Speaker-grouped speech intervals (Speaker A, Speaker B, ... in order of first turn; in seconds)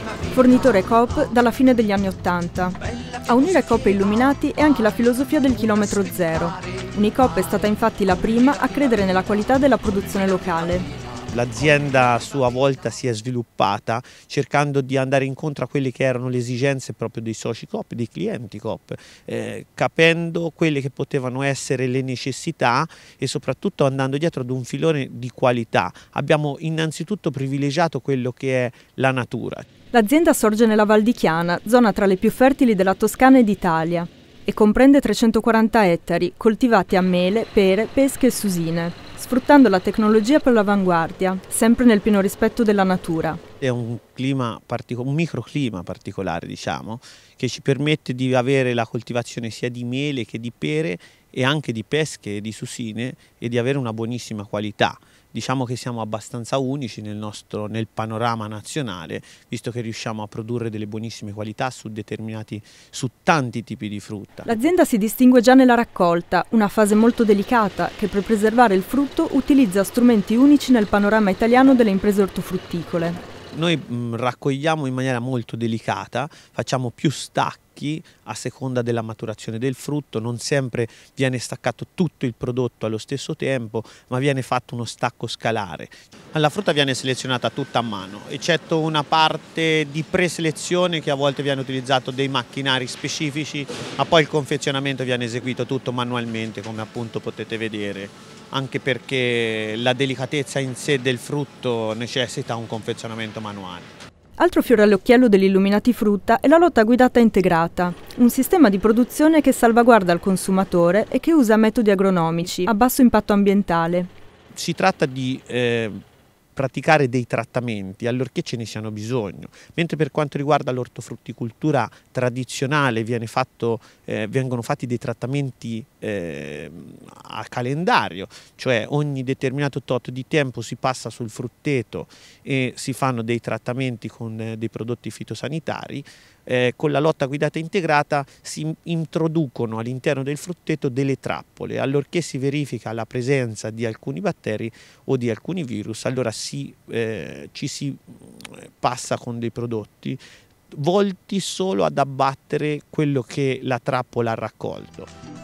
Speaker A: 0.3-10.9, 29.9-43.4, 64.5-73.2, 104.4-114.1
Speaker B: 11.3-29.6, 43.6-64.5, 73.5-103.9, 114.5-116.0, 116.5-155.1